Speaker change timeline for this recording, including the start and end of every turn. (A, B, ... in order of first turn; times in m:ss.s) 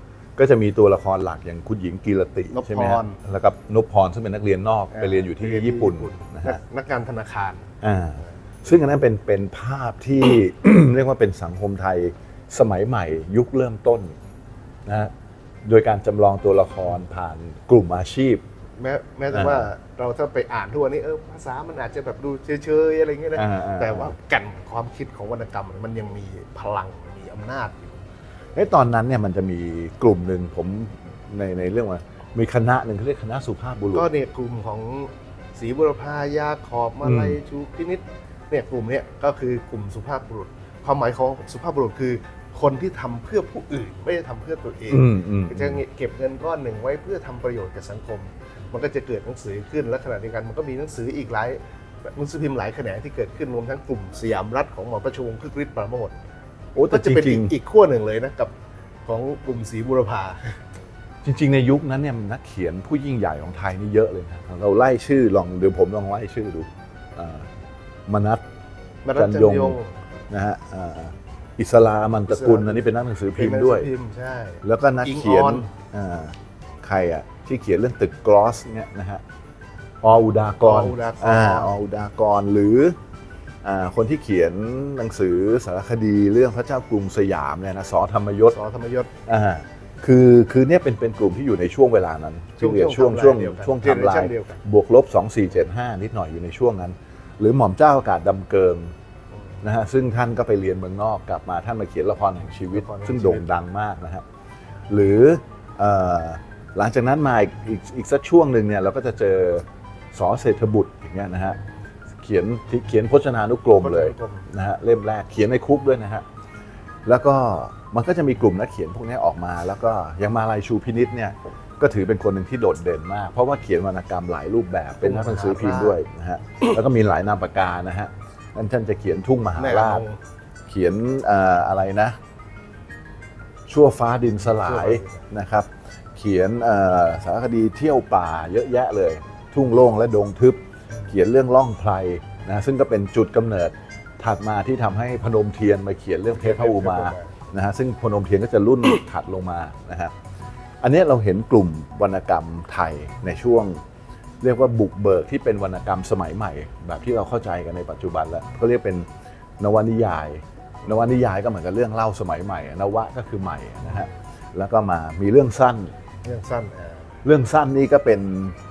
0:00.4-0:06.6 A
0:02.5-0:03.2 B
0:04.9-0:07.7 B
0:07.8-0:14.2 A
0:14.9-0:15.1 A
0:15.6-0:18.4 A
0:18.8-0:28.0 B
0:19.3-0:19.7 A
0:23.4-0:24.2 A
0:28.6-0:34.1 A
0:33.9-0:56.2 B
0:37.0-0:37.4 A
0:44.9-0:45.8 A
0:56.8-0:57.6 A
0:56.9-0:58.5 B
0:59.1-1:00.6 B
1:01.2-1:07.5 A
1:08.1-1:08.4 A
1:09.0-1:10.0 B
1:09.1-1:09.8 A
1:10.3-1:13.9 A
1:12.3-1:12.8 B
1:13.4-1:15.7 B
1:14.6-1:19.2 A
1:20.0-1:23.0 A
1:20.6-1:21.7 B
1:23.6-1:28.6 A
1:28.5-1:29.1 B
1:29.3-1:38.9 A
1:32.6-1:34.6 B
1:39.6-1:44.2 A
1:42.7-1:43.4 B
1:44.9-1:51.6 A
1:52.2-1:56.3 A
1:53.8-1:54.5 B
1:57.0-2:10.0 A
2:05.0-2:06.0 B
2:09.6-2:10.2 B
2:10.7-2:12.2 A
2:13.7-2:30.1 A
2:14.5-2:15.2 B
2:26.3-2:27.3 B
2:30.8-2:33.8 A
2:34.4-2:39.1 A
2:39.6-2:45.9 A
2:46.2-2:47.1 B
2:47.2-2:48.6 A